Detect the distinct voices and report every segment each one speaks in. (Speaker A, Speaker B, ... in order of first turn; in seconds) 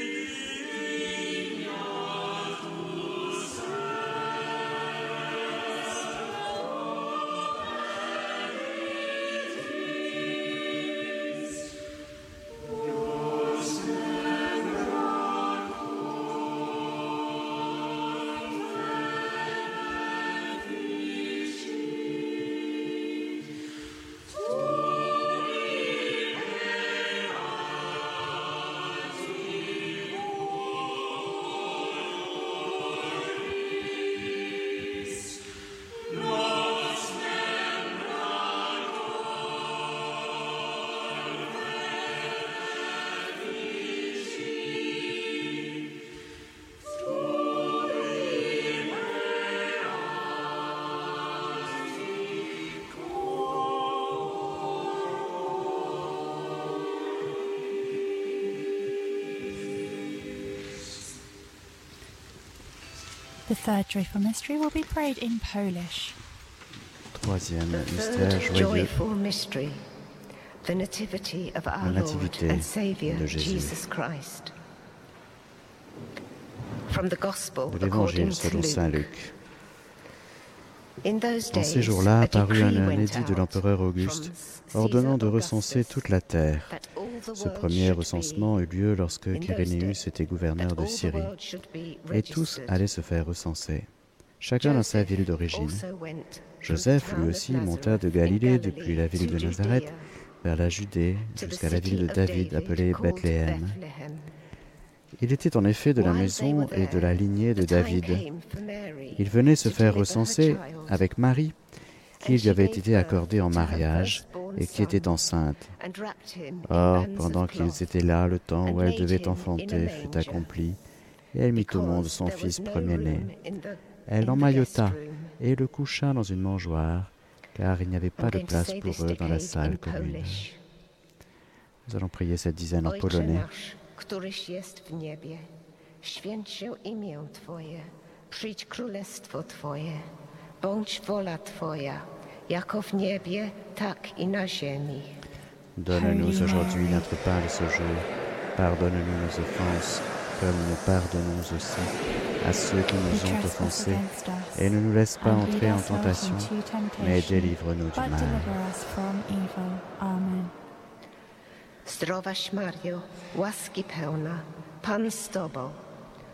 Speaker A: 63.5-66.2, 145.9-147.1, 153.1-160.6
Speaker B: 67.1-69.0, 71.8-73.8, 77.7-79.3, 81.5-86.8, 87.3-91.3, 92.1-93.9, 94.4-95.8, 96.6-99.9, 100.4-103.8, 105.2-108.3, 109.2-111.6, 112.2-115.7, 116.7-120.8, 121.3-123.3, 124.1-130.5, 131.9-133.5, 145.8-158.6
Speaker C: 67.7-69.8, 70.6-74.5, 76.9-79.1, 81.0-86.1, 86.7-88.5, 89.3-90.0, 90.6-92.9, 94.6-100.1, 101.3-104.3, 106.0-111.0, 112.2-115.1, 115.8-117.8, 118.7-120.5, 121.5-125.3, 128.2-130.6, 132.8-135.5, 136.0-140.1, 140.6-145.2, 161.8-165.8